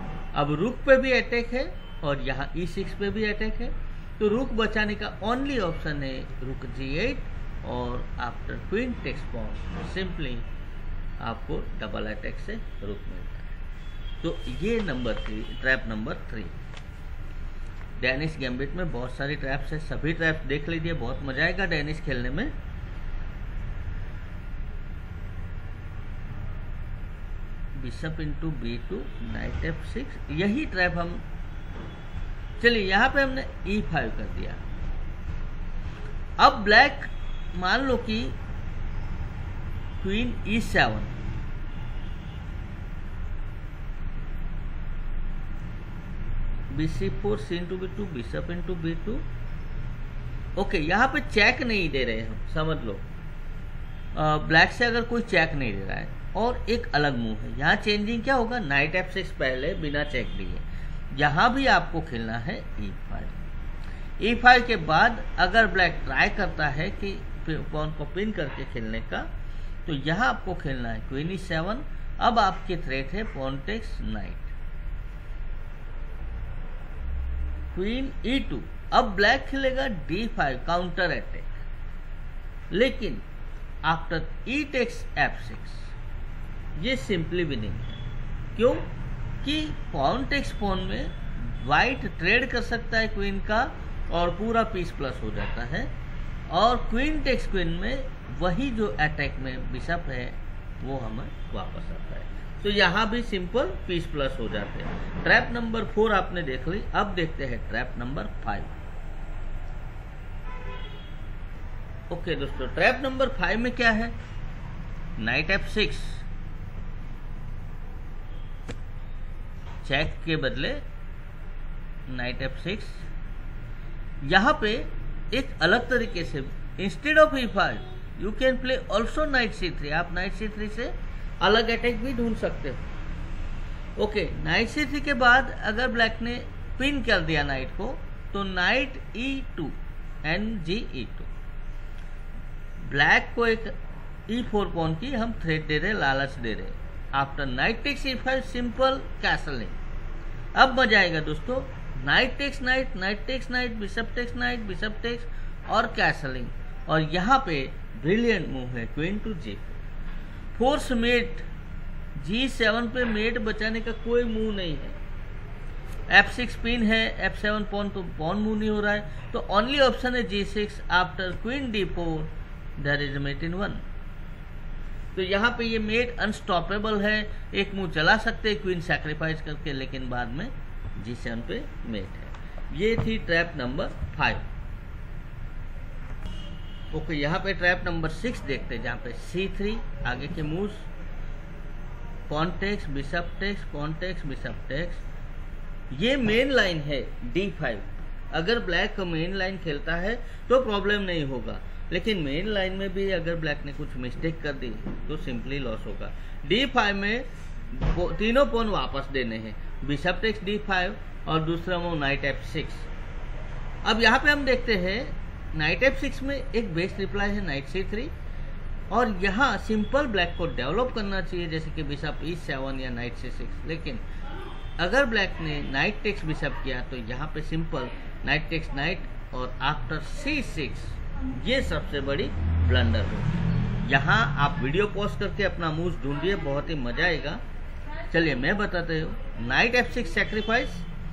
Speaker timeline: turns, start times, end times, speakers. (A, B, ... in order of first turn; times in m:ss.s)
0:00.3-0:10.5 A
0:11.2-0:13.5 A
0:14.2-0:16.6 A
0:18.0-0:22.5 A
0:27.8-0:31.2 A
0:32.6-0:34.6 A
0:36.4-0:38.3 A
0:40.0-0:41.2 A
0:46.7-0:49.2 A
0:50.6-0:53.0 A
0:54.1-1:03.4 A
1:04.2-1:09.3 A
1:09.8-1:14.5 A
1:17.7-1:21.6 A
1:22.7-1:23.2 A
1:23.8-1:25.9 A
1:26.8-1:28.0 A
1:28.6-1:28.9 A
1:29.4-1:35.9 A
1:36.5-1:48.8 A
1:52.1-1:54.1 A
1:55.2-1:56.2 A
1:59.8-2:00.8 A
2:02.1-2:03.0 A
2:04.2-2:12.8 A
2:14.0-2:21.3 A
2:22.8-2:23.7 A
2:24.3-2:29.8 A
2:30.6-2:39.8 A
2:40.5-2:41.5 A
2:42.2-2:45.0 A
2:46.1-2:53.8 A
2:55.1-3:04.5 A
3:06.9-3:10.9 A
3:12.3-3:15.0 A
3:15.9-3:32.9 A
3:33.8-3:38.1 A
3:38.9-3:44.0 A
3:44.8-3:57.4 A
3:58.1-4:00.8 A